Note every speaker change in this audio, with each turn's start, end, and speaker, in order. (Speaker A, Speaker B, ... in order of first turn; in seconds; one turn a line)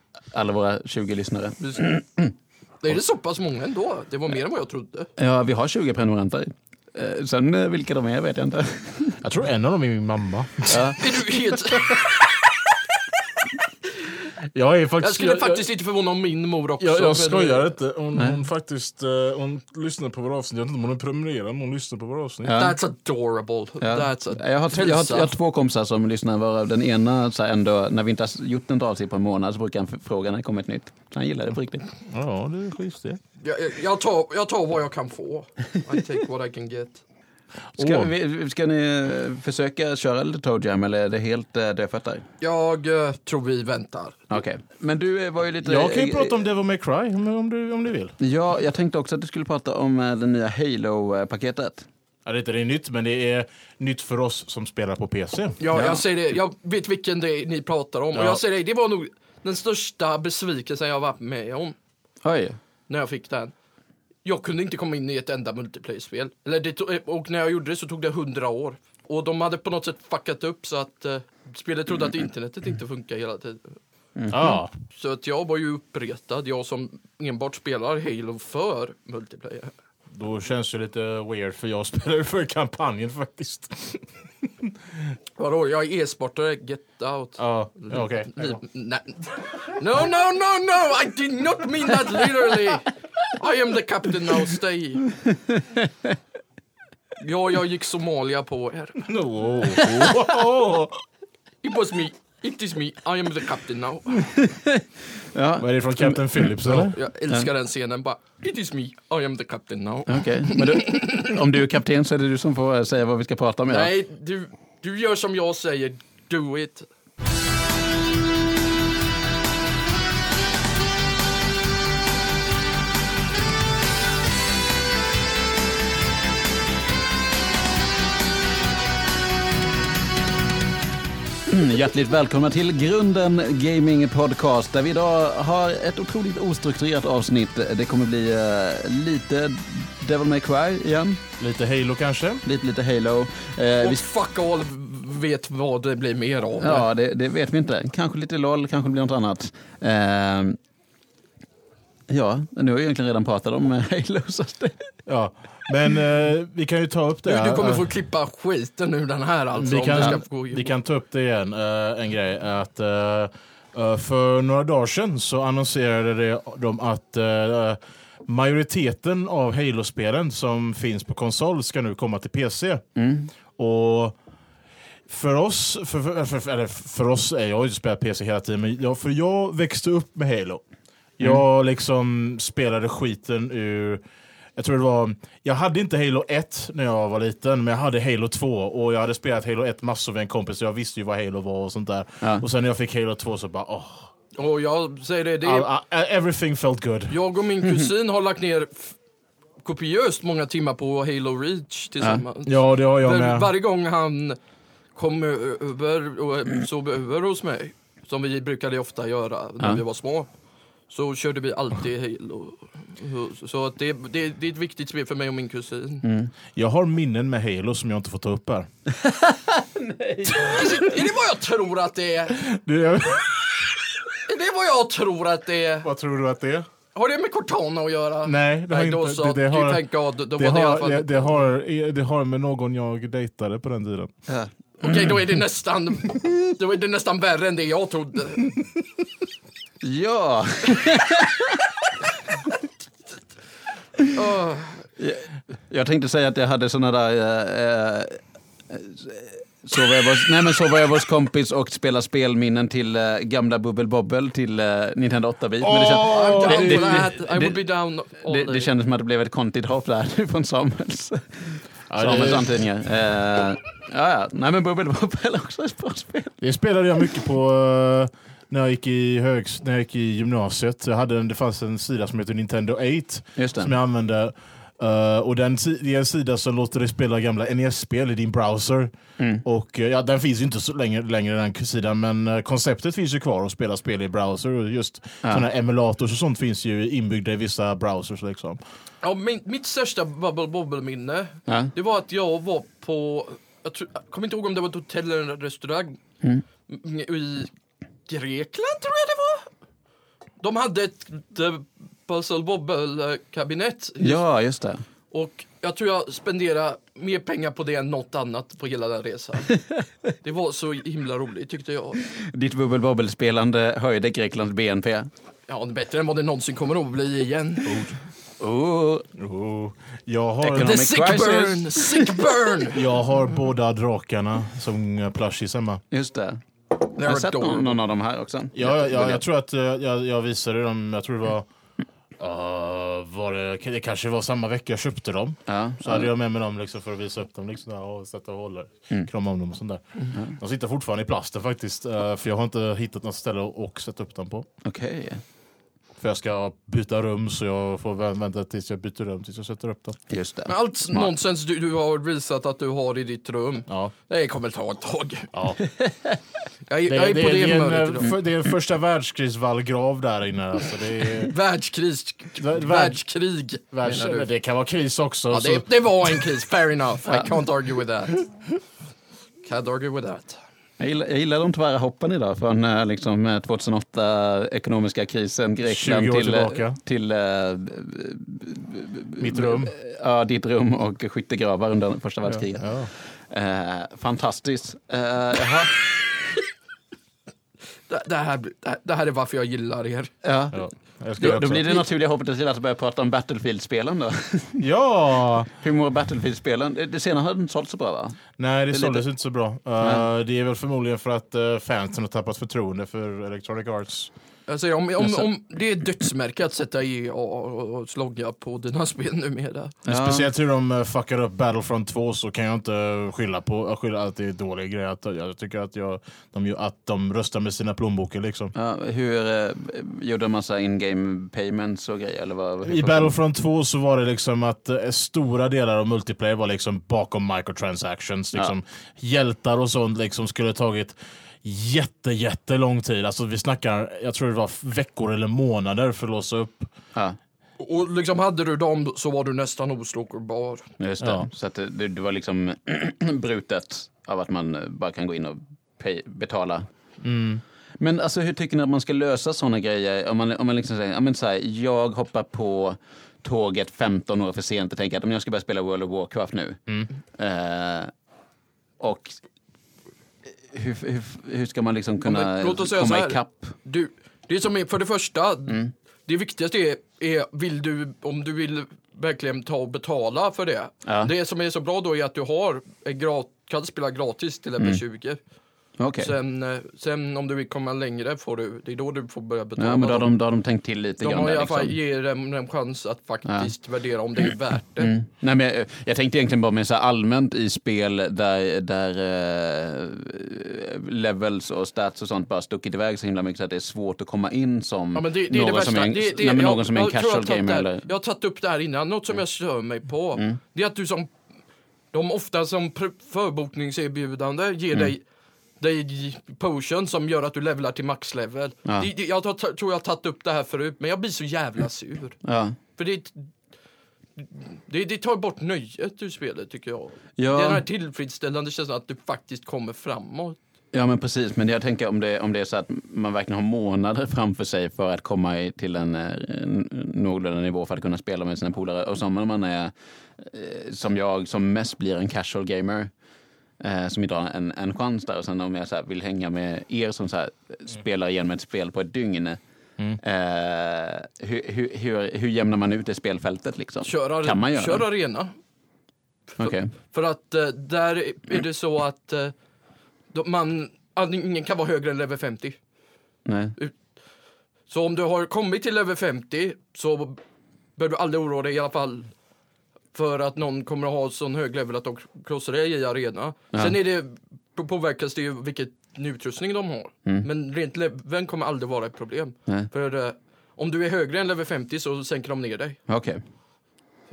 Speaker A: 0.3-2.3
Speaker B: 1.6-1.9
Speaker B: 2.8-5.1
Speaker A: 5.2-9.2
Speaker C: 9.2-12.2
Speaker A: 10.7-11.0
Speaker B: 11.0-12.4
Speaker C: 14.4-15.7
Speaker B: 15.0-17.7
Speaker C: 16.8-22.5
Speaker A: 22.4-22.8
Speaker B: 22.6-25.3
Speaker A: 23.8-31.9
Speaker C: 32.1-33.2
Speaker B: 33.4-37.0
Speaker C: 37.8-38.1
Speaker A: 37.8-42.2
Speaker B: 42.4-44.2
Speaker A: 44.3-46.3
Speaker C: 45.6-48.1
Speaker A: 48.2-51.9
Speaker C: 52.2-55.6
Speaker B: 55.6-61.8
Speaker A: 55.7-56.0
Speaker C: 58.1-58.4
Speaker A: 62.2-62.6
Speaker B: 62.9-63.5
Speaker B: 64.2-73.8
Speaker A: 74.2-74.5
Speaker C: 74.3-74.7
Speaker B: 74.9-79.7
Speaker C: 80.1-84.7
Speaker B: 85.4-95.1
Speaker C: 87.4-88.6
Speaker B: 97.2-99.0
Speaker C: 99.0-101.0
Speaker A: 99.7-100.2
Speaker B: 101.6-104.3
Speaker A: 104.3-107.5
Speaker C: 105.6-107.0
Speaker B: 106.8-111.3
Speaker A: 110.1-113.9
Speaker B: 113.7-116.9
Speaker A: 131.5-141.2
Speaker C: 141.4-142.4
Speaker A: 142.4-144.1
Speaker B: 143.8-146.9
Speaker A: 146.6-150.6
Speaker A: 152.1-154.9
Speaker C: 155.1-157.8
Speaker B: 157.2-160.7
Speaker C: 159.5-172.8
Speaker A: 172.9-173.3
Speaker C: 173.5-174.1
Speaker C: 175.1-180.6
Speaker C: 181.2-184.0
Speaker C: 184.6-194.1
Speaker B: 194.3-195.7
Speaker C: 195.4-197.2
Speaker B: 197.1-198.9
Speaker B: 199.6-204.4
Speaker C: 202.4-203.5
Speaker B: 204.9-210.3
Speaker B: 210.9-216.0
Speaker A: 216.0-216.3
Speaker C: 216.6-218.7
Speaker A: 219.0-220.9
Speaker B: 220.4-222.4
Speaker C: 222.3-223.9
Speaker B: 224.2-225.9
Speaker C: 225.8-226.7
Speaker B: 226.9-231.4
Speaker C: 228.2-234.1
Speaker A: 234.3-235.1
Speaker B: 234.8-238.6
Speaker A: 239.8-241.7
Speaker B: 244.1-244.9
Speaker A: 245.0-257.6
Speaker C: 255.6-257.1
Speaker B: 255.8-258.7
Speaker A: 258.2-266.4
Speaker C: 261.9-262.5
Speaker C: 266.4-278.9
Speaker A: 273.4-273.7
Speaker A: 279.2-279.4
Speaker C: 279.4-288.6
Speaker B: 289.0-296.0
Speaker A: 291.5-291.7
Speaker B: 296.7-297.5
Speaker B: 298.1-299.5
Speaker B: 300.4-304.2
Speaker A: 304.0-304.8
Speaker B: 305.1-309.6
Speaker B: 310.2-312.0
Speaker A: 312.1-315.1
Speaker B: 315.5-317.9
Speaker C: 317.6-317.9
Speaker A: 318.4-319.1
Speaker C: 319.1-320.8
Speaker A: 320.4-322.3
Speaker B: 320.6-322.9
Speaker C: 322.7-325.8
Speaker A: 325.9-326.4
Speaker B: 326.9-327.8
Speaker A: 327.0-329.2
Speaker C: 328.5-331.5
Speaker C: 332.2-344.5
Speaker A: 335.4-336.1
Speaker A: 344.6-345.2
Speaker C: 346.0-350.0
Speaker A: 350.1-351.1
Speaker B: 350.5-355.3
Speaker C: 353.7-353.9
Speaker C: 355.3-355.6
Speaker B: 356.7-358.1
Speaker C: 356.9-361.3
Speaker B: 361.1-364.3
Speaker C: 362.4-363.0
Speaker C: 363.7-366.3
Speaker B: 365.3-368.3
Speaker B: 369.4-370.4
Speaker A: 370.8-385.9
Speaker C: 375.6-376.8
Speaker C: 379.2-379.7
Speaker C: 382.2-382.9
Speaker B: 387.9-390.1
Speaker A: 390.2-390.6
Speaker C: 390.5-391.8
Speaker A: 391.2-394.6
Speaker C: 394.6-395.5
Speaker A: 395.6-398.2
Speaker C: 398.4-404.1
Speaker A: 398.7-399.0
Speaker B: 404.5-409.8
Speaker A: 405.0-405.3
Speaker A: 409.9-410.3
Speaker C: 409.9-418.5
Speaker A: 418.5-423.1
Speaker C: 422.6-436.7
Speaker B: 437.6-440.7
Speaker A: 440.8-446.7
Speaker C: 441.0-441.3
Speaker C: 447.0-447.4
Speaker A: 447.8-456.6
Speaker A: 457.1-457.9
Speaker A: 458.8-459.2
Speaker A: 460.4-463.5
Speaker B: 462.0-475.2
Speaker A: 470.9-471.1
Speaker A: 475.8-476.1
Speaker B: 476.0-480.1
Speaker A: 479.6-481.8
Speaker B: 481.0-484.9
Speaker A: 483.2-483.5
Speaker A: 484.8-497.9
Speaker B: 494.9-501.1
Speaker B: 501.9-505.0
Speaker B: 505.6-512.2
Speaker A: 512.2-512.6
Speaker B: 512.8-513.1
Speaker B: 514.2-520.4
Speaker A: 517.2-517.6
Speaker A: 520.7-532.9
Speaker A: 533.6-539.4
Speaker A: 540.0-544.9
Speaker B: 543.8-545.3
Speaker A: 546.4-546.7
Speaker B: 546.4-549.3
Speaker B: 550.1-552.6
Speaker A: 553.2-553.5
Speaker B: 554.7-557.2
Speaker B: 557.8-559.1
Speaker B: 559.9-572.8
Speaker A: 572.9-573.2